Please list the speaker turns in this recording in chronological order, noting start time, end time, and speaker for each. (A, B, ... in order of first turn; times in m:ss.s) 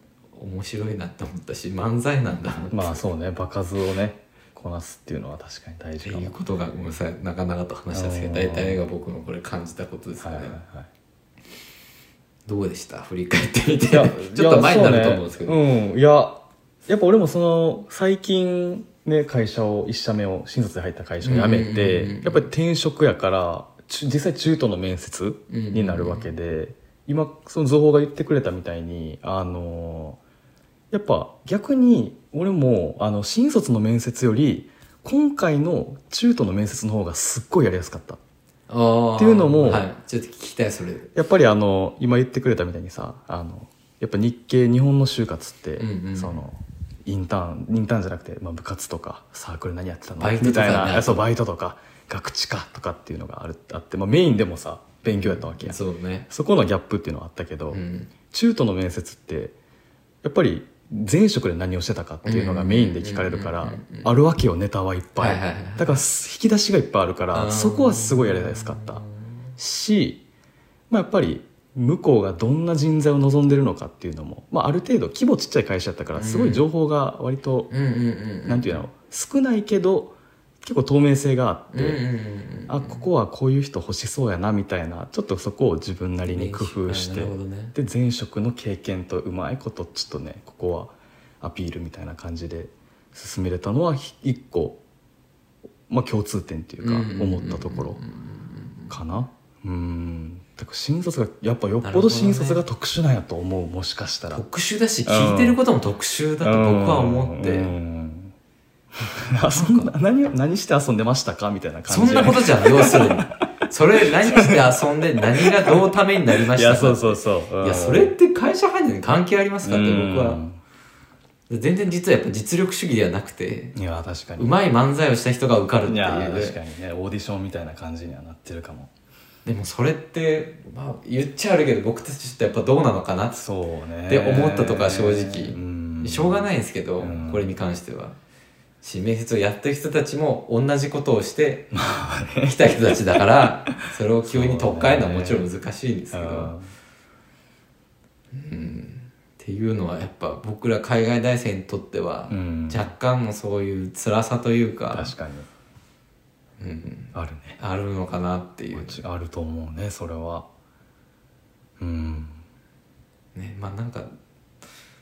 0:00.3-0:03.0 A
0:02.7-0:06.3 B
0:06.0-0:10.6 A
0:07.9-0:08.8 B
0:10.2-0:10.9 B
0:12.4-0:15.6 A
0:13.9-0:30.2 B
0:21.2-0:22.5 A
0:25.5-0:26.3 A
0:30.9-0:38.2 B
0:38.7-0:41.1 A
0:39.2-0:39.9 B
0:41.1-0:59.5 B
0:45.8-0:46.4 A
0:50.2-0:51.2 A
0:55.1-0:56.3 A
0:57.7-0:58.1 A
1:00.2-1:09.0 B
1:02.2-1:04.1 A
1:05.2-1:06.0 A
1:07.3-1:09.1 A
1:09.6-1:10.2 B
1:10.9-1:17.7 B
1:16.2-1:16.6 A
1:17.7-1:18.9 A
1:18.4-1:22.0 B
1:21.7-1:23.0 A
1:22.7-1:34.8 B
1:26.3-1:27.7 A
1:35.9-1:38.0 B
1:36.8-1:38.9 A
1:38.9-1:44.4 B
1:41.8-1:42.6 A
1:44.3-1:47.7 A
1:45.0-1:45.6 B
1:46.4-1:48.3 B
1:49.0-1:53.4 B
1:49.5-1:49.9 A
1:51.9-2:00.4 A
1:54.0-1:58.1 B
1:59.6-2:00.6 B
2:01.5-2:03.7 A
2:03.7-2:04.5 B
2:04.4-2:06.6 A
2:05.8-2:08.9 B
2:09.4-2:13.4 A
2:13.3-2:17.5 B
2:14.1-2:18.2 A
2:18.8-2:21.7 A
2:21.7-2:25.5 B
2:22.4-2:26.5 A
2:26.1-2:26.7 B
2:28.3-2:35.1 A
2:32.3-2:32.9 B
2:34.9-2:35.5 B
2:36.6-2:39.0 A
2:37.1-2:37.6 B
2:38.7-2:40.5 B
2:41.8-2:42.4 B
2:43.3-2:44.1 A